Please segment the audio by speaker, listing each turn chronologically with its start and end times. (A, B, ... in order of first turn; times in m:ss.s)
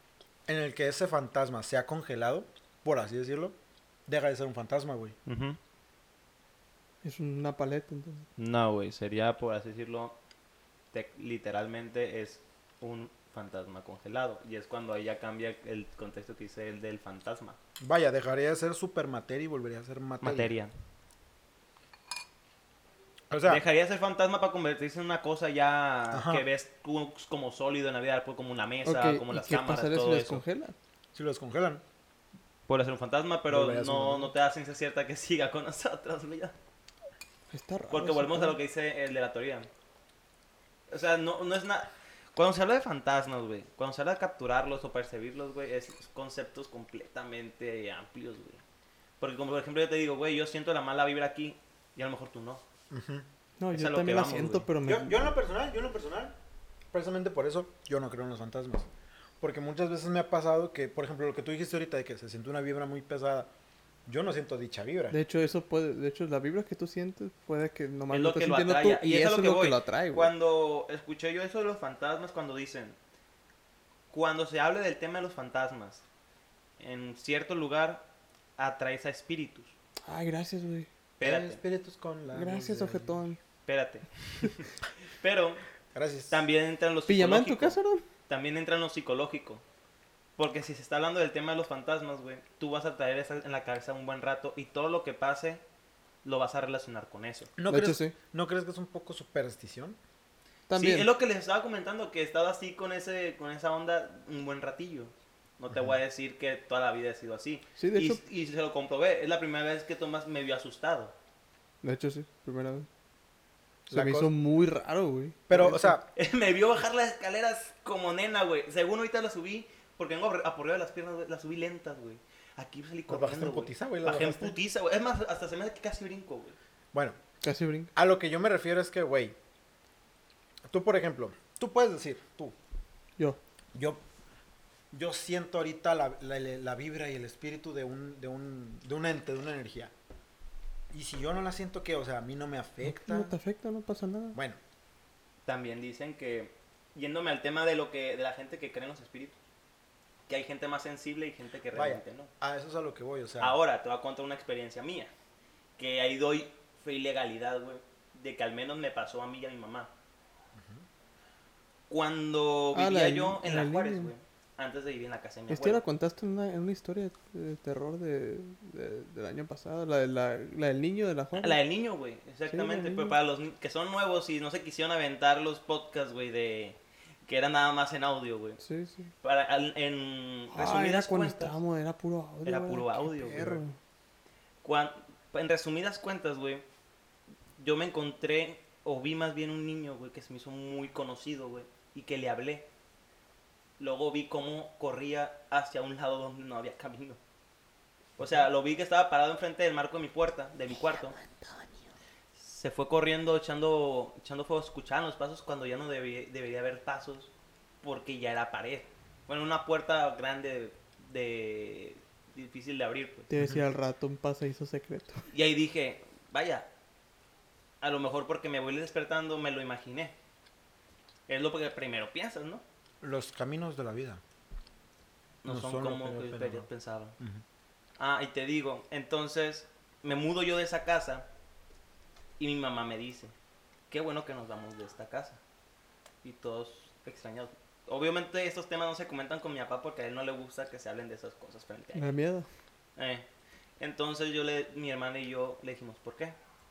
0:00.5-0:05.2 A
0:05.2-0:05.6 B
0:07.0-0:08.2 C
0:08.4-0:10.2 B
0:10.9-0:17.6 B
0:17.8-0:20.5 A
0:20.2-0:20.7 B
0:23.3-0:23.6 A
0:23.4-0:30.4 B
0:26.1-0:26.4 A
0:28.8-0:30.7 C
0:31.1-0:31.8 A
0:32.7-0:36.5 B
0:33.5-0:34.3 A
0:37.5-0:38.6 C
0:37.9-0:39.7 B
0:40.9-0:48.6 B
0:49.2-0:52.6 B
0:52.9-0:53.3 A
0:53.6-0:55.3 C
0:53.7-0:54.7 B
0:54.8-0:56.3 A
0:56.9-1:03.5 A
1:04.0-1:05.2 A
1:05.1-1:10.3 C
1:08.1-1:13.0 B
1:14.1-1:16.0 B
1:16.8-1:19.7 B
1:20.1-1:20.9 C
1:21.2-1:21.6 B
1:21.2-1:23.2 A
1:22.3-1:23.4 C
1:23.6-1:25.6 B
1:25.9-1:26.4 A
1:26.3-1:27.8 B
1:27.1-1:28.0 C
1:28.3-1:29.6 B
1:30.4-1:35.6 B
1:36.2-1:37.5 B
1:37.6-1:40.0 A
1:37.7-1:38.1 C
1:40.7-1:41.1 C
1:40.8-1:51.1 B
1:47.8-1:48.2 C
1:51.8-1:52.9 C
1:53.9-1:56.0 C
1:53.9-1:54.3 A
1:55.5-1:56.1 A
1:56.1-2:06.6 B
2:03.1-2:04.6 A
2:06.9-2:07.2 A
2:07.4-2:07.9 C
2:08.0-2:09.4 A
2:10.7-2:12.5 A
2:13.7-2:14.0 A
2:14.9-2:19.9 A
2:20.9-2:23.3 A
2:22.8-2:24.4 C
2:24.3-2:24.6 A
2:25.4-2:29.4 B
2:30.3-2:32.3 B
2:31.7-2:33.6 A
2:33.4-2:35.1 B
2:35.8-2:39.9 B
2:40.5-2:40.8 A
2:41.9-2:45.8 B
2:42.7-2:44.1 C
2:45.5-2:51.6 C
2:51.3-2:58.6 B
2:52.5-2:53.2 C
2:58.6-2:59.1 C
2:59.2-3:01.6 B
3:00.5-3:03.8 C
3:02.4-3:03.6 B
3:04.6-3:06.6 B
3:07.6-3:12.7 B
3:13.8-3:17.2 B
3:18.2-3:21.1 B
3:20.9-3:21.8 C
3:22.4-3:27.3 B
3:27.8-3:33.3 B
3:33.3-3:35.2 C
3:35.3-3:36.7 B
3:37.8-3:40.1 B
3:41.3-3:42.6 B
3:43.0-3:44.2 A
3:45.4-3:47.2 B
3:45.4-3:46.7 A
3:48.0-3:51.2 B
3:52.4-3:53.3 B
3:53.9-3:55.4 B
3:56.2-4:02.1 B
4:01.9-4:02.5 C
4:03.0-4:03.2 B
4:03.8-4:06.4 B